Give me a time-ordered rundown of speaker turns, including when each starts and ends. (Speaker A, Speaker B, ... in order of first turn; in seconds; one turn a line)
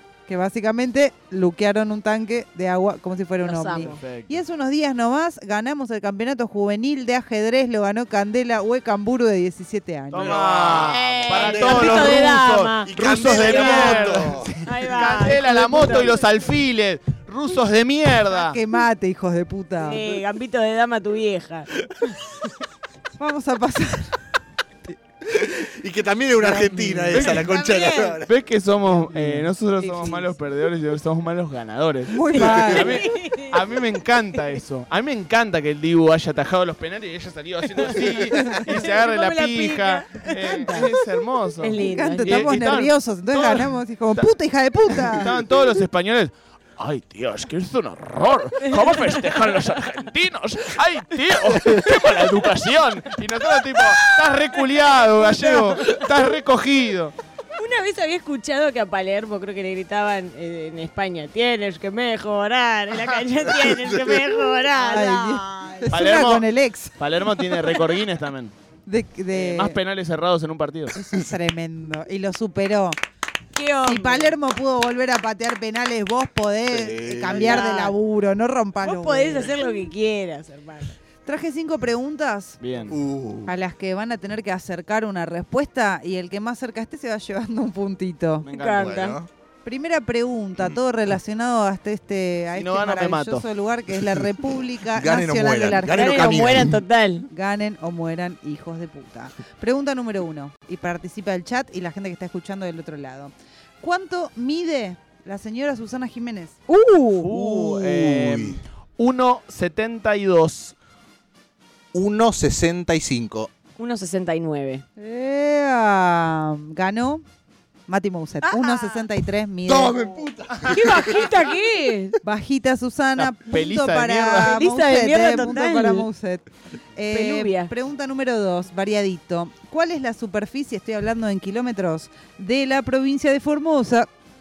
Speaker A: 0.2-10.3
Speaker B: 3.4-4.0
Speaker C: 3.8-4.4
Speaker C: 10.1-18.6
Speaker D: 10.2-14.5
Speaker B: 10.8-12.9
Speaker B: 13.4-14.1
Speaker B: 14.6-16.1
Speaker A: 15.2-16.1
Speaker A: 18.2-20.2
Speaker B: 19.8-21.7
Speaker A: 23.2-24.3
Speaker D: 25.3-28.3
Speaker A: 26.4-27.6
Speaker C: 27.1-27.4
Speaker B: 27.5-28.2
Speaker C: 28.2-44.3
Speaker A: 28.9-29.5
Speaker B: 29.9-30.2
Speaker A: 32.1-33.1
Speaker B: 32.3-33.5
Speaker A: 38.4-38.7
Speaker B: 38.7-40.9
Speaker A: 40.4-40.8
Speaker B: 41.6-42.4
Speaker A: 41.8-45.3
Speaker C: 44.9-57.1
Speaker B: 48.7-49.1
Speaker B: 57.6-65.5
Speaker D: 63.4-64.3
Speaker A: 64.7-66.9
Speaker C: 65.9-68.5
Speaker A: 68.8-69.8
Speaker C: 69.3-70.9
Speaker A: 70.9-73.0
Speaker B: 73.5-74.3
Speaker A: 73.8-79.6
Speaker D: 76.7-77.7
Speaker B: 77.3-77.9
Speaker B: 78.8-81.0
Speaker A: 81.2-82.9
Speaker C: 82.6-83.0
Speaker D: 82.9-83.5
Speaker A: 83.4-88.5
Speaker C: 88.4-89.0
Speaker B: 88.5-89.2
Speaker D: 88.7-89.3
Speaker A: 89.6-96.7
Speaker C: 92.5-93.5
Speaker D: 94.8-96.8
Speaker B: 95.9-97.3
Speaker A: 97.3-106.6
Speaker B: 106.7-107.3
Speaker C: 107.2-110.7
Speaker D: 107.3-108.6
Speaker D: 111.9-113.5
Speaker B: 113.8-114.8
Speaker A: 115.0-117.2
Speaker A: 117.9-120.2
Speaker B: 118.4-119.0
Speaker D: 119.7-121.3
Speaker B: 120.7-122.2
Speaker A: 122.2-134.1
Speaker C: 123.2-124.6
Speaker B: 124.4-126.1
Speaker B: 127.1-127.7